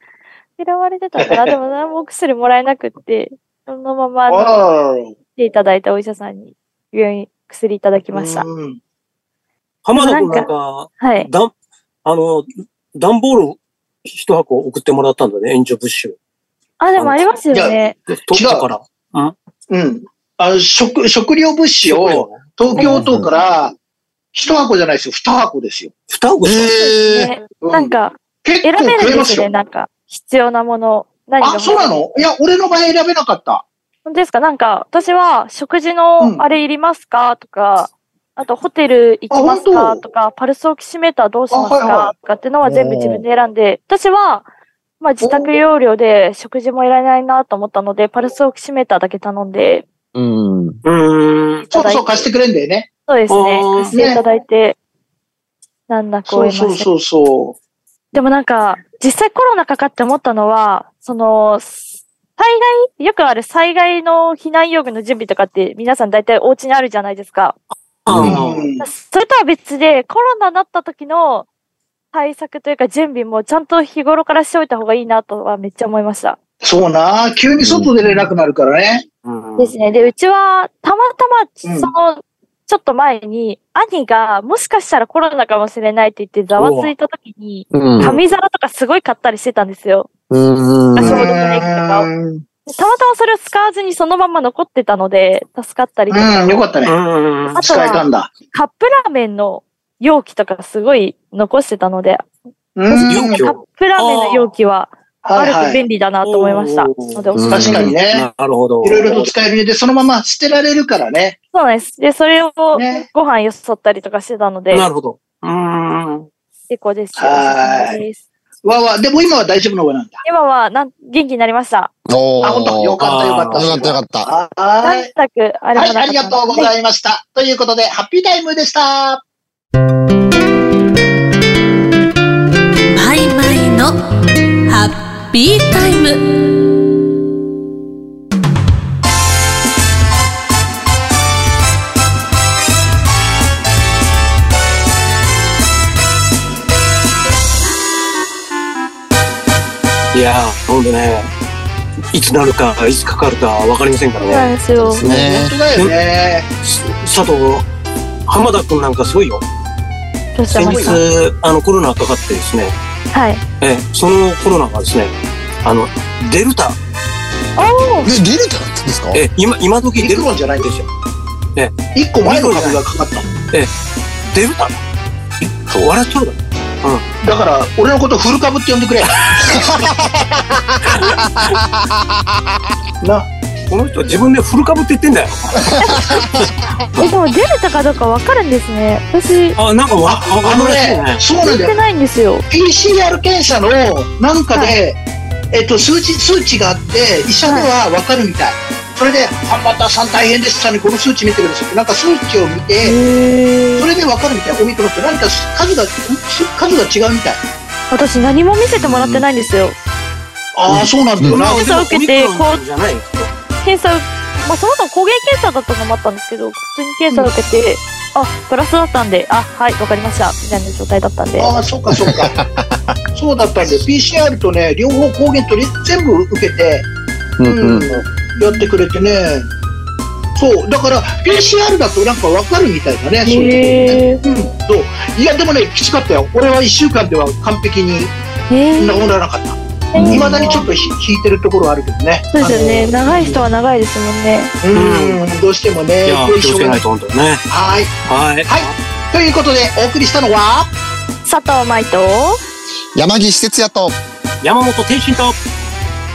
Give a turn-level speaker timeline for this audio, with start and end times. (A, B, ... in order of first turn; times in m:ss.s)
0:00.6-0:04.6 A
0:01.2-0:01.6 B
0:04.3-0:05.2 B
0:05.4-0:08.5 A
0:08.1-0:08.8 B
0:09.8-0:11.5 C
0:09.9-0:11.3 A
0:12.0-0:16.2 C
0:16.8-0:18.0 A
0:17.0-0:17.2 C
0:17.5-0:17.8 B
0:18.1-0:19.4 C
0:18.3-0:18.7 B
0:19.7-0:23.8 B
0:21.8-0:22.9 C
0:22.8-0:23.3 D
0:24.3-0:25.9 B
0:26.1-0:26.7 C
0:26.4-0:27.3 D
0:26.8-0:32.0 A
0:27.6-0:29.5 B
0:31.4-0:33.6 B
0:34.1-0:44.5 A
0:39.3-0:40.0 B
0:41.5-0:42.1 B
0:42.6-0:43.2 D
0:45.0-0:49.9 A
0:45.2-0:45.5 B
0:50.1-0:50.8 D
0:50.8-0:51.7 C
0:51.7-0:52.3 A
0:51.7-0:52.9 B
0:53.1-0:54.8 A
0:53.3-0:54.0 C
0:53.9-0:54.2 B
0:55.9-0:56.9 A
0:56.3-0:57.6 B
0:58.1-1:07.6 A
1:08.0-1:08.7 C
1:08.1-1:08.4 D
1:08.3-1:08.9 B
1:08.8-1:11.5 A
1:12.1-1:16.4 A
1:16.6-1:19.0 B
1:17.6-1:18.3 D
1:19.2-1:19.7 C
1:19.6-1:30.1 A
1:21.6-1:21.9 B
1:26.6-1:26.9 C
1:27.7-1:28.1 D
1:30.3-1:31.3 D
1:31.0-1:32.1 A
1:31.0-1:32.4 B
1:32.6-1:36.6 A
1:36.1-1:37.0 B
1:36.8-1:37.7 C
1:37.5-1:42.3 A
1:37.6-1:38.3 B
1:42.8-1:43.4 B
1:42.9-1:48.0 A
1:43.1-1:44.5 C
1:45.2-1:45.8 B
1:46.2-1:49.1 C
1:47.5-1:48.3 B
1:48.8-1:51.4 B
1:51.5-1:54.9 A
1:52.7-1:53.1 B
1:54.7-1:56.3 C
1:56.7-1:58.2 A
1:57.2-1:58.0 B
1:58.6-2:00.2 B
2:00.2-2:01.9 A
2:02.1-2:03.0 D
2:02.4-2:05.1 B
2:03.0-2:03.9 C
2:03.5-2:04.3 D
2:04.8-2:06.7 A
2:05.7-2:09.2 B
2:12.9-2:14.0 E
2:14.7-2:16.2 E
2:30.1-2:31.3 C
2:32.1-2:34.6 C
2:34.2-2:35.0 A
2:34.8-2:35.6 D
2:35.0-2:36.5 B
2:36.6-2:37.7 C
2:38.3-2:39.4 C
2:40.4-2:41.0 A
2:40.5-2:42.7 C
2:40.6-2:41.0 B
2:43.1-2:43.4 A
2:43.6-2:46.8 C
2:47.6-2:48.1 A
2:48.0-2:49.2 D
2:49.1-2:50.9 C
2:50.0-2:50.7 B
2:51.6-2:52.8 C
2:51.9-2:53.3 B
2:54.3-2:54.8 C
2:55.4-2:57.0 C
2:57.2-2:59.2 B
2:59.4-3:02.2 D
3:00.8-3:01.5 C
3:03.0-3:03.3 B
3:03.7-3:07.1 C
3:05.7-3:06.5 D
3:07.0-3:09.6 A
3:09.6-3:11.2 C
3:10.0-3:11.8 B
3:11.4-3:12.4 A
3:12.5-3:15.0 B
3:15.5-3:23.0 B
3:22.8-3:23.9 A
3:23.8-3:27.4 B
3:27.9-3:29.8 A
3:28.8-3:29.2 D
3:30.6-3:31.6 B
3:30.7-3:31.4 D
3:31.3-3:33.3 C
3:31.3-3:32.6 A
3:33.6-3:41.5 A
3:41.4-3:42.4 B
3:41.9-3:43.0 D
3:43.1-3:46.9 B
3:47.4-3:48.0 D
3:47.4-3:49.5 B
3:50.4-3:58.1 B
3:53.2-3:54.2 A
3:58.5-3:59.1 A
3:58.8-4:03.4 B
3:59.9-4:00.8 A
4:00.0-4:00.5 D
4:02.3-4:04.6 A
4:04.6-4:06.8 B
4:04.7-4:05.2 C
4:06.0-4:07.4 C
4:07.5-4:07.9 B
4:08.1-4:08.7 C
4:08.5-4:10.7 B
4:11.2-4:12.4 A
4:13.0-4:14.0 D
4:14.4-4:15.4 C